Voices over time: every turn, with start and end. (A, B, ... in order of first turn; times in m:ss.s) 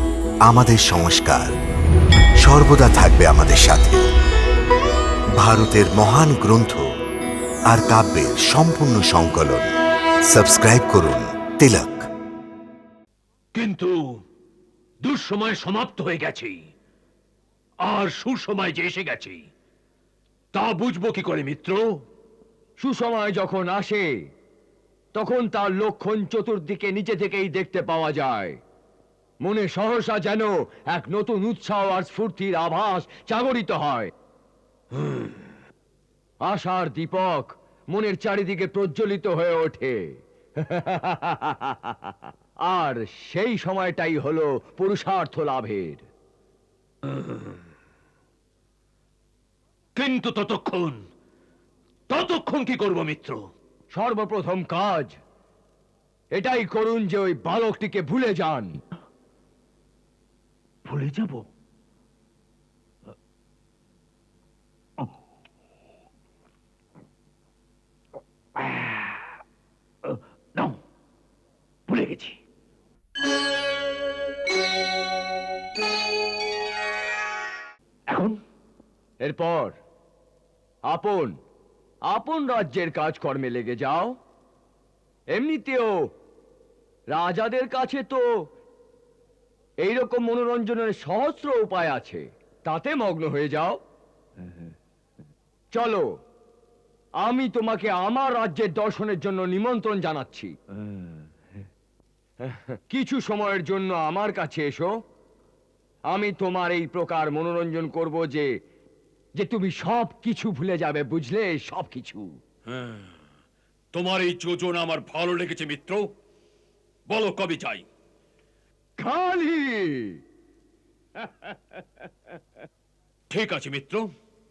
0:00.5-0:01.5 A
0:02.4-0:04.0 A
0:05.4-0:06.9 A
0:07.7-0:09.7 A
0:10.3-0:12.1 A
0:13.6-0:14.0 B
0:15.0-0:16.6 B
0:17.8-0:19.4 B
0:20.5-0:22.0 B
0:22.8-0:24.1 C
0:25.1-0:28.6 C
0:29.4-0:34.1 C
0:36.4-0:40.0 C
0:40.6-0:42.1 C
0:42.6-0:46.0 C
0:50.0-0:51.0 B
0:52.1-0:53.5 B
0:53.9-0:55.1 C
0:56.3-0:58.8 C
1:00.9-1:01.4 B
1:08.6-1:09.0 B
1:11.9-1:12.4 B
1:18.1-1:18.4 B
1:19.2-1:19.8 C
1:20.9-1:21.4 C
1:22.1-1:24.2 C
1:25.3-1:26.0 C
1:27.1-1:28.2 C
1:29.8-1:33.8 C
1:35.7-1:36.1 C
1:37.2-1:40.6 C
1:42.4-1:44.9 C
1:46.1-1:48.5 C
1:49.4-1:52.4 C
1:52.7-1:53.1 B
1:53.9-1:56.1 B
1:57.1-1:57.8 B
1:59.0-2:00.2 C
2:03.3-2:04.1 B